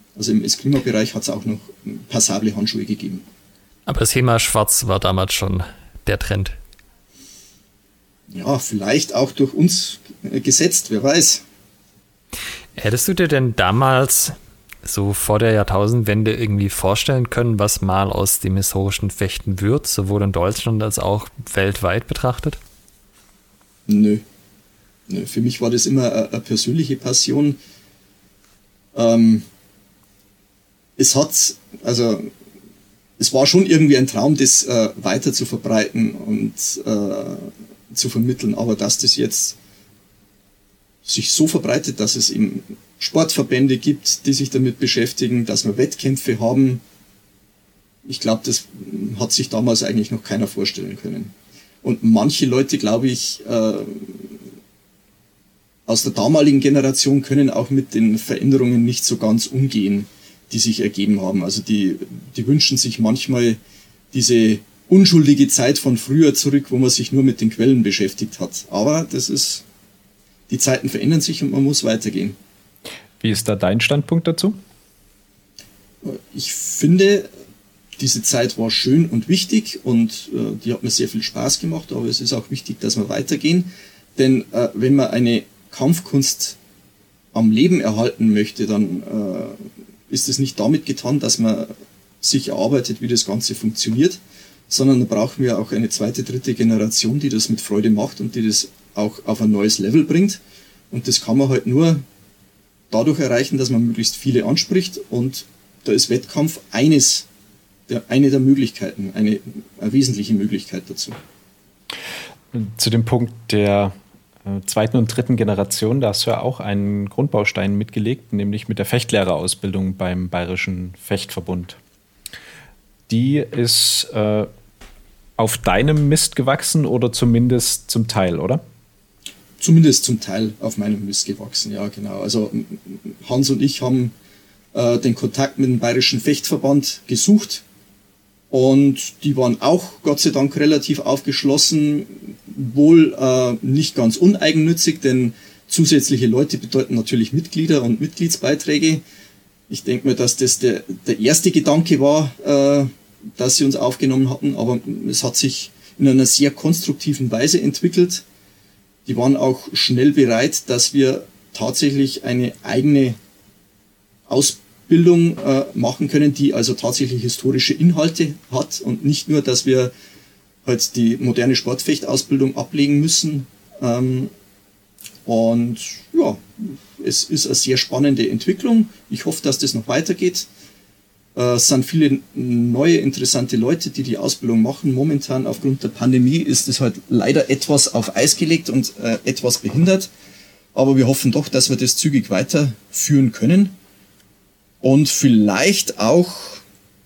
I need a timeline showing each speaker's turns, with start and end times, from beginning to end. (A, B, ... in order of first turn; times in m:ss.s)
0:00.2-0:03.2 A
0:03.9-0:06.6 B
0:08.3-0:11.4 A
0:12.8-0:22.6 B
0:23.9-0:24.2 A
0:25.1-0:27.6 A
0:28.9-0:29.4 A
0:31.0-0:32.3 A
0:33.2-0:39.6 A
0:41.0-0:46.8 A
0:48.0-0:54.4 A
0:55.9-1:03.6 A
1:04.1-1:09.6 A
1:10.5-1:12.4 A
1:13.2-1:14.6 C
1:16.0-1:17.3 A
1:18.0-1:26.6 A
1:27.3-1:40.4 A
1:40.9-1:42.0 A
1:42.9-1:47.2 A
1:47.9-1:51.2 A
1:52.5-2:01.8 C
2:03.1-2:04.5 C
2:05.4-2:08.6 C
2:09.6-2:14.1 A
2:14.7-2:17.6 A
2:18.5-2:29.0 A
2:29.7-2:38.2 A
2:39.0-2:43.2 A
2:44.3-2:49.9 A
2:50.6-2:54.3 A
2:55.2-3:00.5 A
3:01.3-3:10.1 A
3:10.7-3:13.7 A
3:14.8-3:16.6 A